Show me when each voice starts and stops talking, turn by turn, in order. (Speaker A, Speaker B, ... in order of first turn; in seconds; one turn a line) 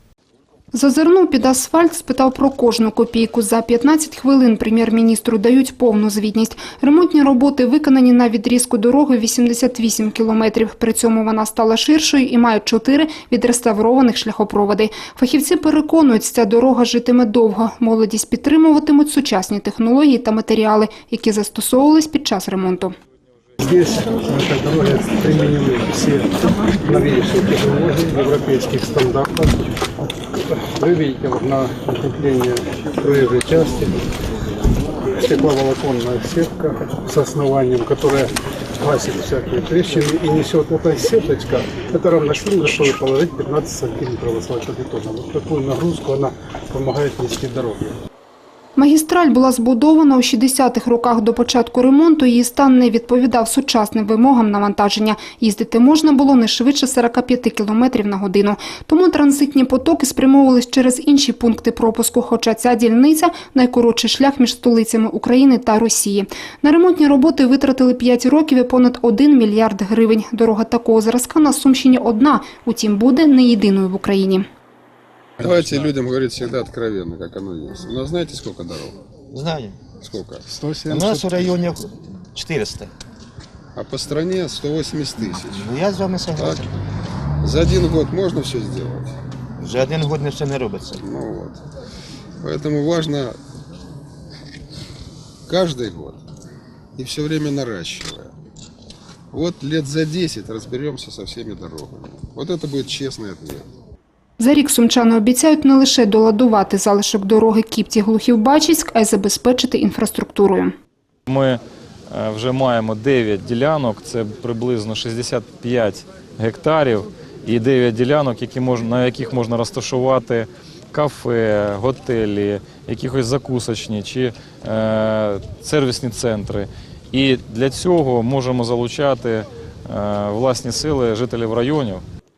Speaker A: 0.7-22.9
Speaker B: 23.6-29.9
Speaker B: 30.5-34.1
Speaker B: 35.1-48.0
Speaker A: 48.8-74.5
Speaker C: 75.4-79.0
Speaker D: 79.3-79.8
Speaker C: 80.0-80.5
Speaker D: 80.8-82.9
Speaker C: 83.8-85.7
Speaker D: 85.5-86.7
Speaker C: 86.3-86.7
Speaker C: 87.4-89.1
Speaker D: 89.6-91.0
Speaker C: 91.0-91.6
Speaker C: 92.4-93.4
Speaker C: 95.5-96.2
Speaker C: 97.0-98.3
Speaker C: 99.3-103.7
Speaker A: 104.4-110.7
Speaker E: 111.3-132.0